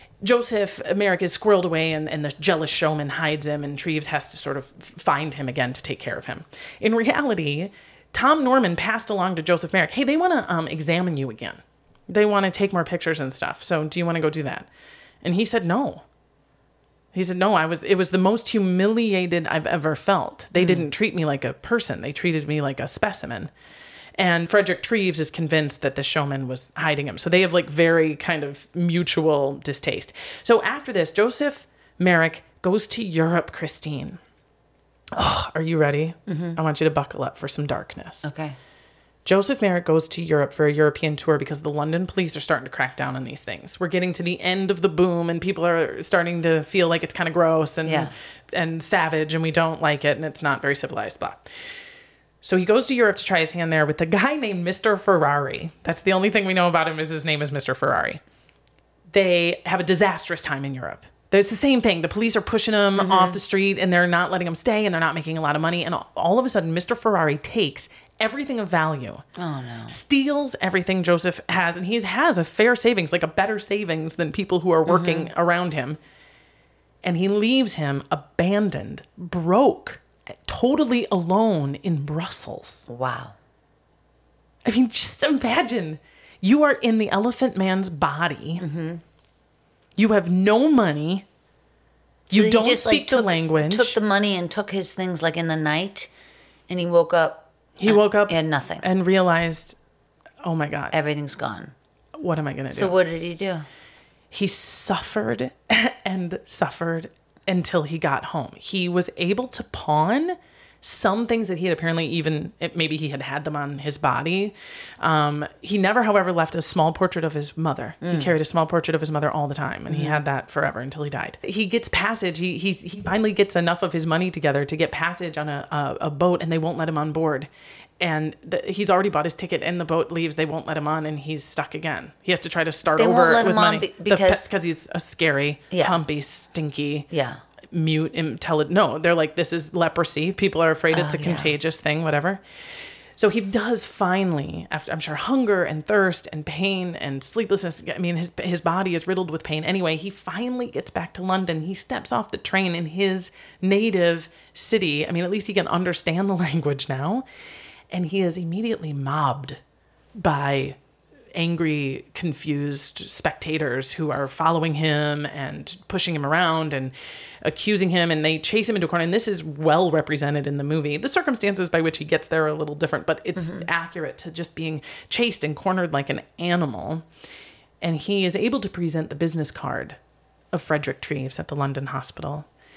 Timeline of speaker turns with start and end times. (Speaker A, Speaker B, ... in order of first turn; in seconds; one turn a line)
Speaker A: 0.2-14.7
Speaker A: 15.2-16.1
Speaker A: 17.1-23.5
Speaker B: 20.6-20.9
Speaker A: 24.2-34.2
Speaker A: 35.1-38.3
Speaker B: 36.3-36.6
Speaker B: 38.2-38.6
Speaker A: 39.2-51.5
Speaker B: 47.9-48.1
Speaker A: 52.4-58.2
Speaker A: 59.1-69.2
Speaker B: 63.0-63.4
Speaker B: 69.4-70.0
Speaker A: 69.9-76.0
Speaker B: 74.9-75.3
Speaker A: 77.0-82.9
Speaker B: 82.9-83.3
Speaker A: 84.7-88.6
Speaker B: 88.6-89.0
Speaker A: 90.0-91.3
Speaker A: 92.3-94.0
Speaker B: 92.3-96.1
Speaker B: 96.7-98.9
Speaker A: 97.8-99.8
Speaker A: 100.4-100.9
Speaker B: 100.9-101.7
Speaker A: 102.2-102.9
Speaker B: 102.7-103.7
Speaker A: 104.3-127.5
Speaker B: 118.0-118.3
Speaker B: 119.9-120.2
Speaker A: 128.0-137.1
Speaker B: 132.9-134.5
Speaker B: 135.7-136.0
Speaker B: 137.1-137.4
Speaker A: 137.7-142.4
Speaker B: 140.9-141.6
Speaker A: 143.2-157.2
Speaker A: 157.9-159.6
Speaker A: 160.2-160.8
Speaker A: 161.3-177.1
Speaker B: 173.4-173.7
Speaker A: 177.8-180.0
Speaker A: 180.5-182.5